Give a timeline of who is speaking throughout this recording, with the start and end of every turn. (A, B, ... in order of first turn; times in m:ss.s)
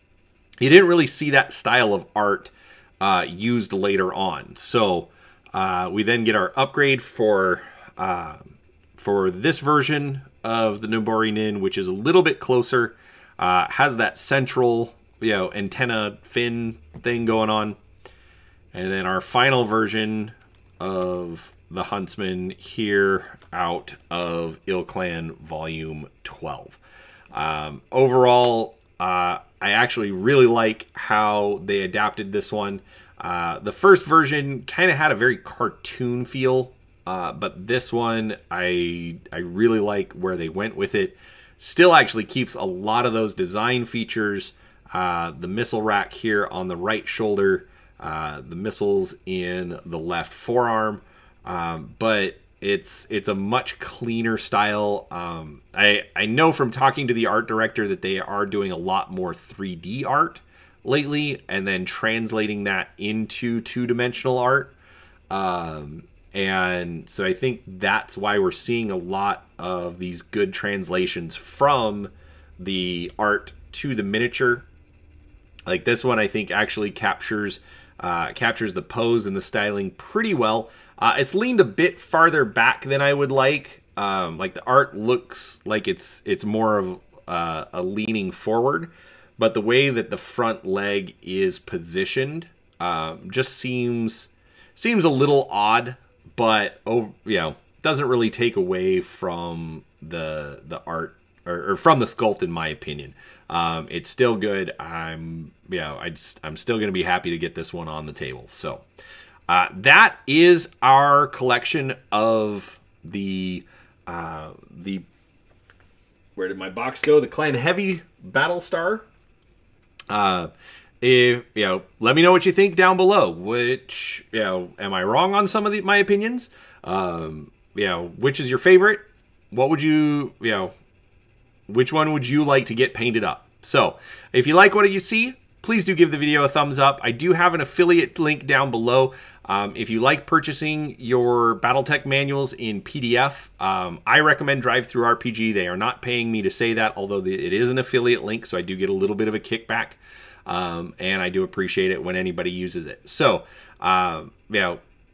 0:00.6-0:17.8 A
0:18.7-0:26.8 A
0:27.3-1:04.8 A
1:05.3-1:14.7 A
1:15.7-1:48.8 A
1:49.5-1:55.1 A
1:56.4-1:59.1 A
2:00.1-2:00.5 A
2:01.0-2:10.7 A
2:11.7-2:34.8 A